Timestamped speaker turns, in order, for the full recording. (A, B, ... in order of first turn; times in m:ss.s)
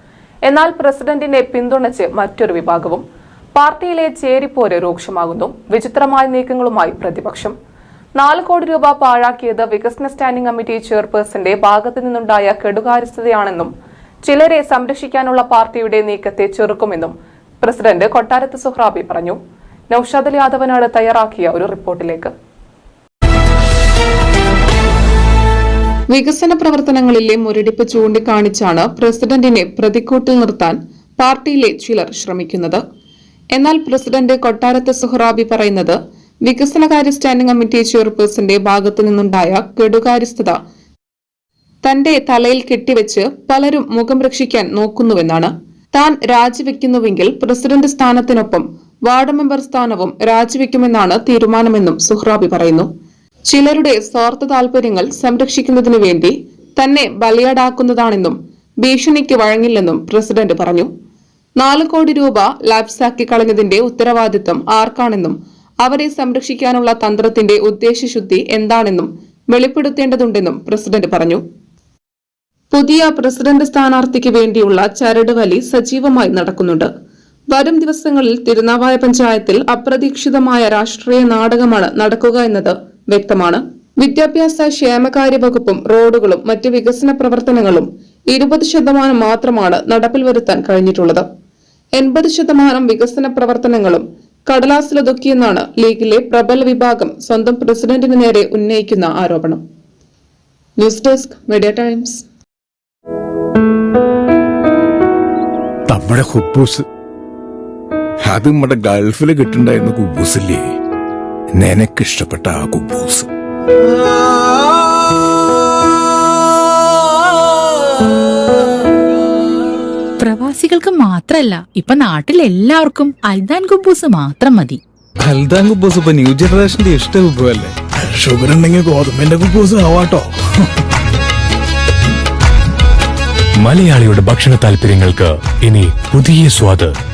0:00.4-0:03.0 A
0:03.6-0:07.5 A
0:08.2-0:13.7 A
0:14.2-0:19.4 A
0:19.9-0:22.3 A
0:26.1-0:32.8 A
0:33.5-0:40.6 A
0:41.8-0:52.9 A
0:53.5-1:00.9 A
1:01.6-1:11.4 A
1:12.7-1:16.9 A
1:17.5-1:31.2 A
1:32.0-1:39.6 A
1:40.8-1:42.2 A
1:45.9-1:46.8 B
1:48.2-1:50.6 B
1:51.6-1:53.3 B
2:00.2-2:04.8 C
2:05.2-2:07.7 D
2:08.1-2:10.2 B
2:13.6-2:16.9 E